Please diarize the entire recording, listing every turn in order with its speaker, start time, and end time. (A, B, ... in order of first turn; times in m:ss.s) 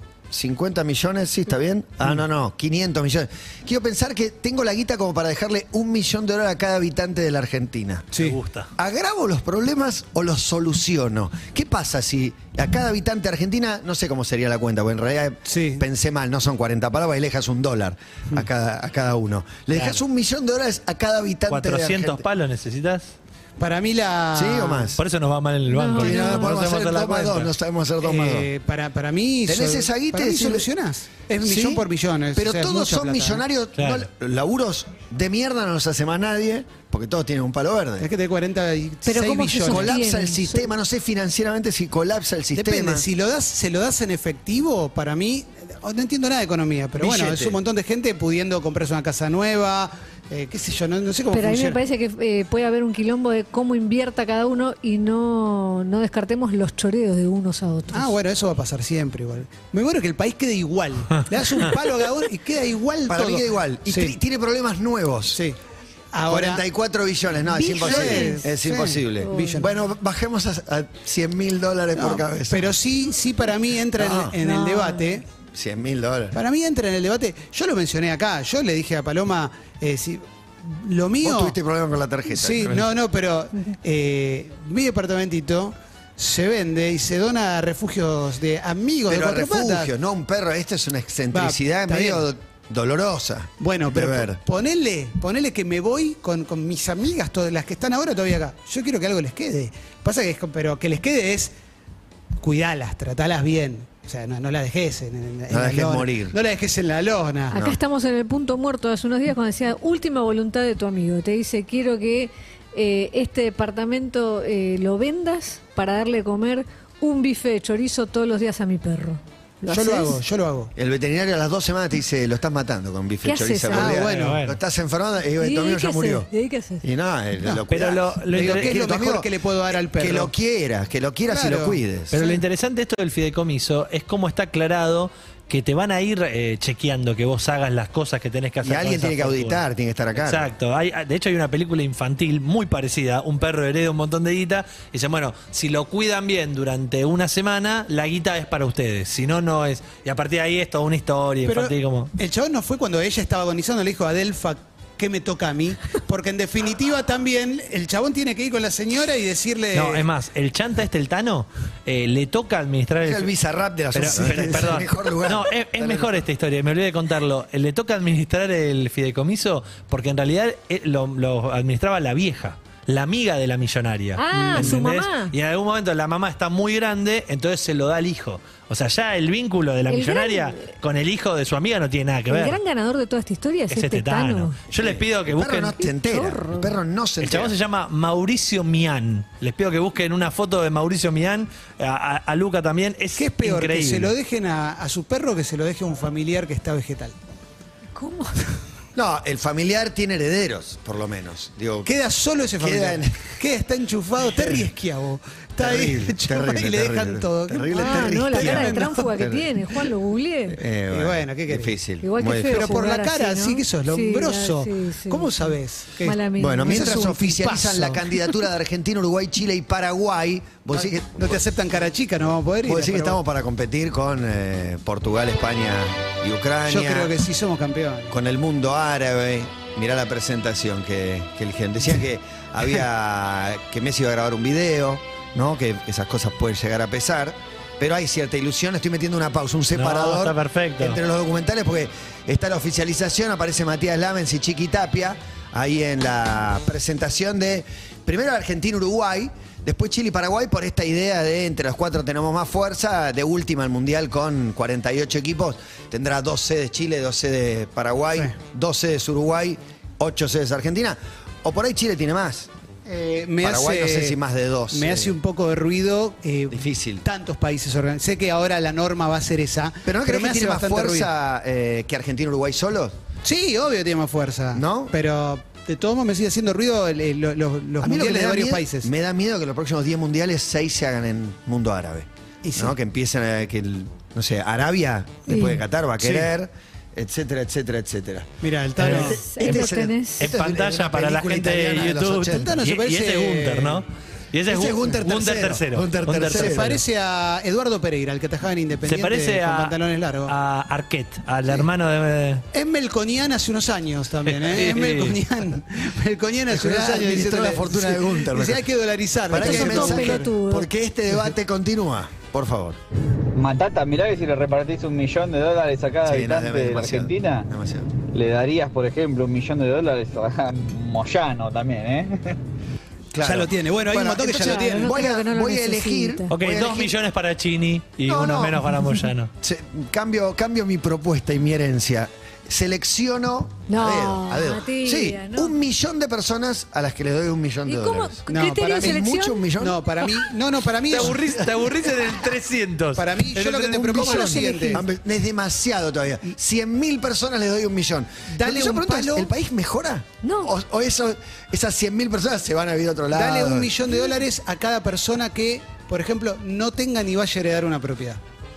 0:00.3-0:08.1 A
0:08.2-0:08.7 B
0:08.8-0:22.2 A
0:15.5-0:15.8 C
0:19.7-0:20.0 B
0:21.5-0:23.1 B
0:23.6-0:25.0 C
0:24.3-0:25.0 A
0:25.0-0:27.5 B
0:25.7-0:26.5 D
0:25.9-0:28.5 A
0:28.0-0:33.4 C
0:29.4-0:30.7 A
0:31.4-0:38.1 A
0:33.8-0:34.1 B
0:38.0-0:39.9 C
0:39.0-0:40.7 D
0:39.6-0:43.0 A
0:42.5-0:51.8 C
0:47.0-0:47.6 A
0:51.3-0:58.1 D
0:57.9-1:04.2 C
1:03.0-1:05.4 A
1:06.1-1:06.6 C
1:06.3-1:12.7 A
1:07.6-1:08.4 D
1:07.7-1:09.7 C
1:09.2-1:09.6 D
1:12.0-1:15.2 C
1:13.9-1:14.4 A
1:14.4-1:15.1 D
1:15.5-1:16.4 A
1:16.3-1:21.5 C
1:21.2-1:22.9 A
1:22.3-1:29.9 C
1:29.0-1:34.4 A
1:31.3-1:32.2 C
1:33.6-1:41.5 C
1:42.4-1:47.5 C
1:45.5-1:46.4 A
1:47.5-2:00.2 D
1:47.5-1:47.8 A
1:59.7-2:00.7 C
2:00.8-2:06.3 A
2:03.2-2:04.0 D
2:03.7-2:04.4 C
2:04.0-2:04.6 B
2:05.4-2:06.8 D
2:06.8-2:12.1 A
2:07.7-2:08.8 B
2:08.3-2:10.3 C
2:11.3-2:11.8 C
2:12.1-2:19.6 B
2:18.6-2:20.5 A
2:20.1-2:32.1 B
2:31.4-2:40.0 C
2:39.7-2:43.3 B
2:43.0-2:46.2 A
2:43.9-3:02.6 B
2:44.0-2:44.7 C
2:54.2-2:55.3 D
2:54.3-2:54.7 C
2:59.9-3:00.7 D
3:02.3-3:04.6 D
3:03.7-3:05.8 B
3:04.7-3:07.5 A
3:05.8-3:06.8 D
3:07.2-3:14.1 B
3:13.2-3:17.1 C
3:17.9-3:18.3 D
3:18.9-3:21.9 A
3:21.8-3:29.1 C
3:22.6-3:23.4 A
3:24.3-3:24.6 A
3:25.6-3:29.5 A
3:27.7-3:30.6 D
3:30.5-3:32.8 A
3:30.9-3:31.7 C
3:32.0-3:37.1 D
3:32.5-3:38.0 C
3:36.4-3:41.5 A
3:40.7-3:43.2 C
3:42.6-3:47.1 A
3:46.7-3:48.1 C
3:48.1-4:22.5 A
3:59.7-4:01.0 B
4:22.8-4:24.2 C
4:23.4-4:25.2 A
4:24.7-4:31.1 C
4:26.5-4:27.0 A
4:29.8-4:32.9 A
4:33.2-4:38.9 C
4:34.5-4:34.9 A
4:37.8-4:52.6 A
4:42.4-4:42.7 C
4:45.3-4:45.6 D
4:46.0-4:46.3 C
4:48.4-4:49.2 C
4:48.8-4:49.0 B
4:49.0-4:50.3 D
4:50.2-4:56.8 B
4:51.7-4:53.8 C
4:54.5-4:56.8 A
4:54.6-4:55.0 C
4:56.3-5:00.3 C
4:58.9-5:02.4 B
5:02.5-5:10.3 C
5:04.2-5:05.2 B
5:06.5-5:08.6 A
5:09.3-5:12.8 A
5:09.3-5:10.7 D
5:13.2-5:22.4 E
5:16.0-5:17.9 A
5:23.1-5:27.0 A
5:23.2-5:24.9 C
5:24.3-5:26.3 D
5:26.3-5:29.3 B
5:28.0-5:28.8 A
5:29.4-5:39.8 A
5:33.7-5:35.5 D
5:37.6-5:39.4 D
5:38.3-5:41.4 C
5:40.9-5:44.5 B
5:41.0-5:41.3 A
5:42.9-5:44.8 C
5:43.7-5:53.7 A
5:44.2-5:44.8 D
5:48.3-5:49.3 C
5:50.2-5:50.5 D
5:53.1-5:58.2 C